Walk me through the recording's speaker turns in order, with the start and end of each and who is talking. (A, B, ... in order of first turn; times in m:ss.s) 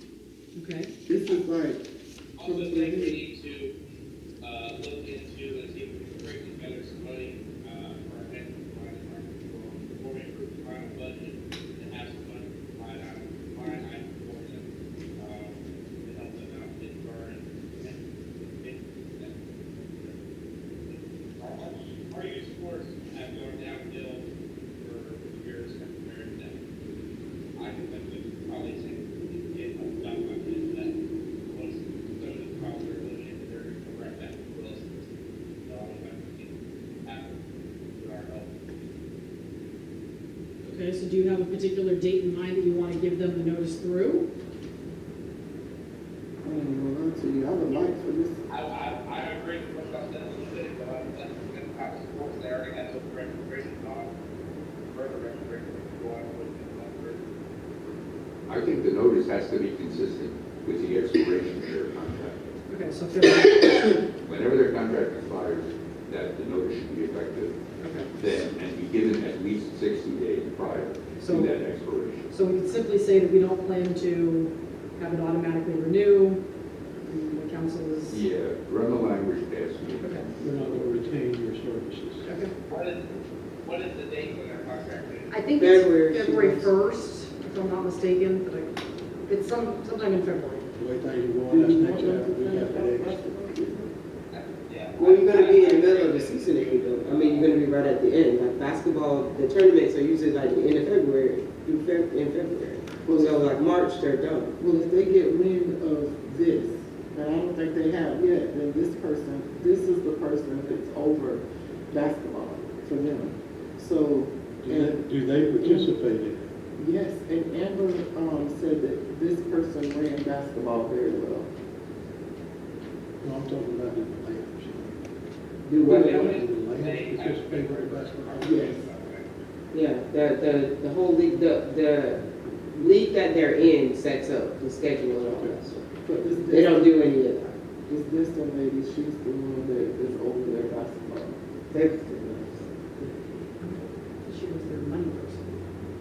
0:00.6-0:00.9 A
0:01.0-0:01.8 B
0:02.4-0:03.7 C
0:02.4-0:03.2 B
0:04.4-0:14.6 C
0:15.2-0:20.2 C
0:20.8-0:24.3 C
0:24.8-0:26.6 C
0:27.6-0:31.0 C
0:31.5-0:35.0 C
0:35.6-0:36.5 C
0:37.0-0:37.4 C
0:37.9-0:38.5 C
0:40.6-0:44.3 A
0:46.4-0:48.4 B
0:48.5-0:54.1 C
0:54.9-0:57.2 C
0:58.5-1:02.4 D
1:02.7-1:04.0 A
1:04.2-1:07.6 D
1:07.8-1:08.1 A
1:08.2-1:12.3 D
1:11.2-1:11.6 A
1:12.3-1:16.4 A
1:17.0-1:18.2 A
1:18.1-1:21.0 D
1:20.0-1:20.3 A
1:20.4-1:22.2 E
1:22.2-1:22.5 A
1:22.7-1:23.1 C
1:23.6-1:25.4 C
1:25.3-1:28.8 A
1:25.6-1:26.7 F
1:29.3-1:30.7 A
1:30.8-1:33.2 E
1:31.5-1:33.9 B
1:34.3-1:37.7 C
1:35.0-1:44.5 F
1:43.0-1:43.5 B
1:44.6-1:55.0 B
1:54.6-1:56.5 E
1:55.6-1:55.9 B
1:56.8-2:01.5 B
2:03.2-2:05.0 E
2:05.7-2:06.4 F
2:05.8-2:08.8 E
2:05.8-2:09.4 C
2:08.4-2:08.8 B
2:09.7-2:15.8 F
2:15.3-2:15.6 E
2:16.0-2:21.4 B
2:16.5-2:17.5 F
2:21.7-2:22.4 F
2:22.2-2:23.1 B
2:23.6-2:25.5 A